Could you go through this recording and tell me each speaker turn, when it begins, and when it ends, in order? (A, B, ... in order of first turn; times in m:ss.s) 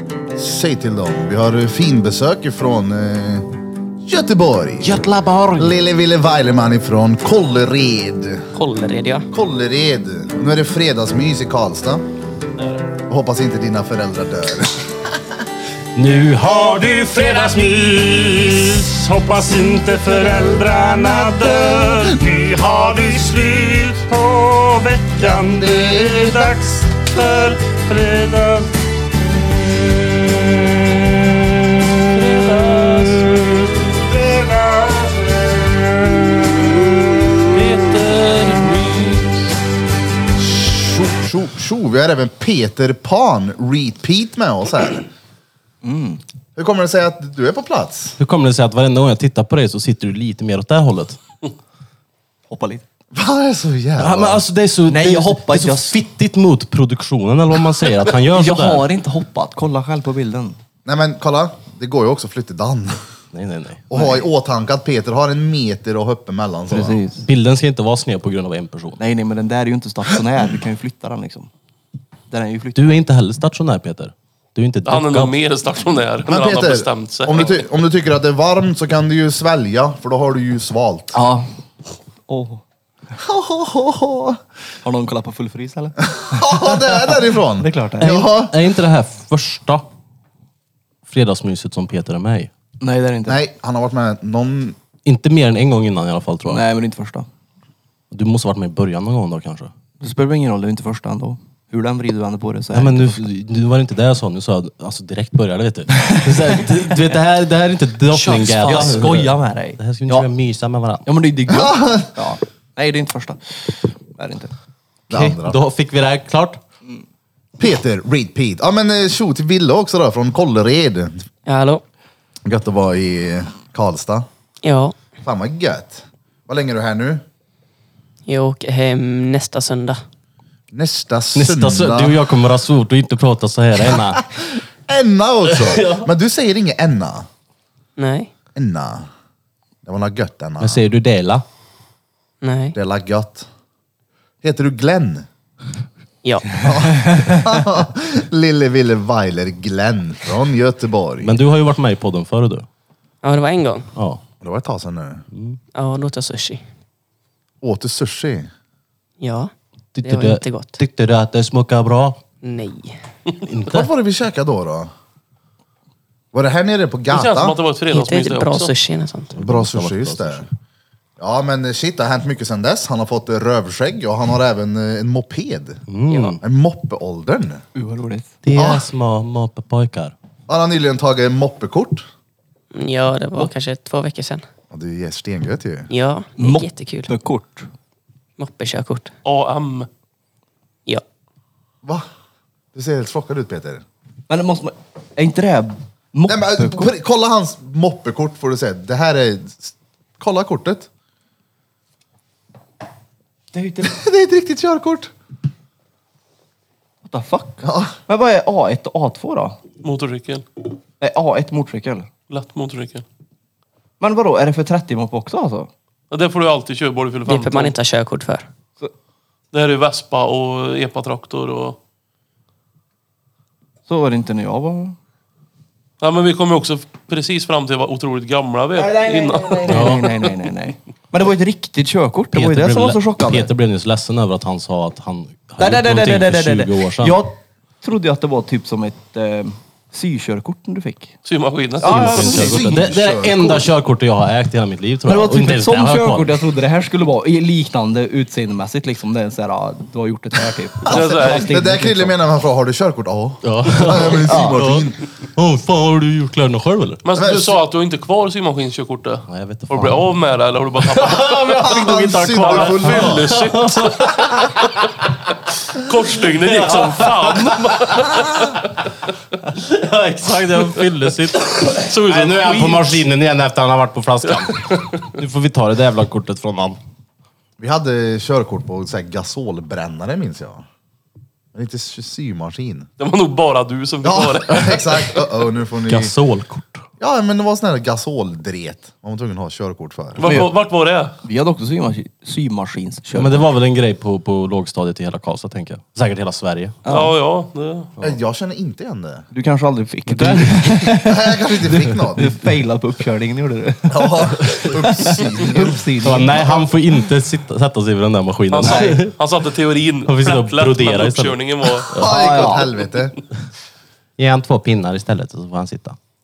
0:00.4-0:05.0 A
0:04.8-0:05.8 B
0:05.6-0:08.5 A
0:08.5-0:09.3 C
0:09.3-0:12.0 A
0:13.1-0:15.2 A
0:16.0-0:16.3 B
0:16.0-0:28.7 D
0:17.3-0:18.1 B
0:25.2-0:26.6 A
0:29.3-0:38.8 D
0:32.2-0:33.3 E
0:37.6-0:39.5 E
0:40.4-0:45.1 A
0:45.8-0:46.2 F
0:46.6-0:48.2 A
0:48.2-0:51.2 B
0:52.5-0:52.8 F
0:53.1-0:54.4 A
0:54.0-0:58.8 B
0:54.9-0:56.0 F
0:58.3-1:00.6 F
1:00.8-1:03.1 A
1:03.3-1:03.8 B
1:03.9-1:07.0 A
1:06.7-1:07.3 F
1:07.2-1:09.0 B
1:09.0-1:11.5 F
1:12.3-1:12.8 F
1:12.8-1:15.4 B
1:14.9-1:17.6 E
1:16.3-1:21.2 A
1:21.1-1:21.5 F
1:22.3-1:22.6 F
1:23.2-1:24.4 A
1:24.8-1:28.3 F
1:26.1-1:28.6 A
1:28.5-1:29.9 B
1:31.1-1:32.5 B
1:32.8-1:33.4 F
1:33.3-1:34.8 A
1:35.0-1:36.6 B
1:36.5-1:37.3 F
1:38.1-1:39.7 B
1:40.0-1:43.2 F
1:42.7-1:51.1 B
1:46.0-1:47.2 F
1:48.1-1:49.0 E
1:48.6-1:50.3 F
1:51.0-1:54.5 F
1:51.5-1:52.2 A
1:55.1-1:55.6 A
1:55.1-1:56.6 B
1:57.6-2:01.3 A
2:01.5-2:01.8 C
2:02.4-2:04.3 A
2:04.6-2:05.0 C
2:05.2-2:07.2 A
2:08.3-2:10.0 C
2:10.7-2:12.3 A
2:11.4-2:14.3 B
2:13.8-2:17.3 A
2:15.6-2:16.1 B
2:18.0-2:18.3 C
2:18.6-2:19.1 A
2:19.8-2:20.8 A
2:20.6-2:21.4 B
2:22.4-2:22.8 C
2:22.7-2:23.5 A
2:24.4-2:25.3 A
2:26.2-2:26.7 C
2:26.6-2:31.4 A
2:31.2-2:32.7 B
2:33.2-2:33.9 C
2:34.0-2:34.2 B
2:34.4-2:35.3 A
2:35.3-2:35.6 B
2:35.8-2:36.6 C
2:37.6-2:38.5 A
2:39.2-2:39.5 C
2:40.0-2:42.2 B
2:40.0-2:40.8 C
2:42.4-2:43.0 C
2:43.4-2:43.9 B
2:43.7-2:44.9 A
2:46.3-2:47.6 A
2:47.1-2:48.7 E
2:47.9-2:49.4 C
2:49.4-2:50.5 A
2:49.4-2:50.5 B
2:51.2-2:55.8 A
2:55.9-2:56.4 B
2:56.4-2:57.6 A
2:57.8-2:58.3 F
2:58.4-3:00.1 B
2:58.5-2:58.9 A
3:00.5-3:02.0 A
3:02.7-3:04.4 C
3:04.7-3:05.9 A
3:05.9-3:07.1 C
3:06.4-3:07.7 F
3:08.4-3:09.1 C
3:09.2-3:09.9 E
3:12.7-3:13.8 A
3:14.3-3:16.9 F
3:16.3-3:20.9 A
3:23.5-3:24.0 F
3:23.8-3:25.1 A
3:27.0-3:29.6 F
3:27.6-3:28.0 A
3:29.8-3:30.4 E
3:31.0-3:32.1 F
3:32.3-3:33.0 E
3:34.0-3:35.7 F
3:36.1-3:37.7 E
3:37.3-3:38.5 C
3:39.5-3:41.8 E
3:43.9-3:45.0 F
3:46.0-3:50.0 E
3:48.8-3:53.5 F
3:49.7-3:50.1 B
3:52.3-3:57.2 B
3:55.6-4:01.2 F
4:01.2-4:02.6 E
4:01.8-4:02.7 F
4:01.8-4:06.4 B
4:02.1-4:03.7 A
4:05.1-4:12.1 F
4:10.8-4:15.0 A
4:10.9-4:11.5 E
4:13.4-4:17.0 B
4:14.1-4:14.6 F
4:17.0-4:21.8 E
4:17.2-4:17.6 A
4:19.3-4:20.1 B
4:20.8-4:24.9 B
4:21.6-4:23.3 A
4:22.4-4:24.6 E
4:25.7-4:28.5 E
4:26.5-4:28.7 B
4:29.4-4:36.8 B
4:31.8-4:33.1 E
4:34.2-4:35.0 E
4:37.6-4:40.7 A
4:41.5-4:42.9 A
4:43.0-4:45.2 E
4:44.0-4:46.1 A
4:45.8-4:46.9 B
4:47.0-4:50.4 A
4:50.2-4:51.2 E
4:50.2-4:50.5 F
4:51.2-4:53.5 F
4:53.2-4:56.8 B
4:56.8-4:57.1 F
4:56.9-4:57.9 E
4:58.0-4:59.3 A
4:59.3-5:06.6 F
5:00.1-5:00.8 B
5:00.8-5:02.3 A
5:03.9-5:06.6 A
5:06.0-5:09.2 B
5:08.5-5:11.9 E
5:08.6-5:09.0 F
5:10.1-5:12.1 B
5:11.9-5:13.2 A
5:12.0-5:12.7 F
5:14.2-5:16.0 B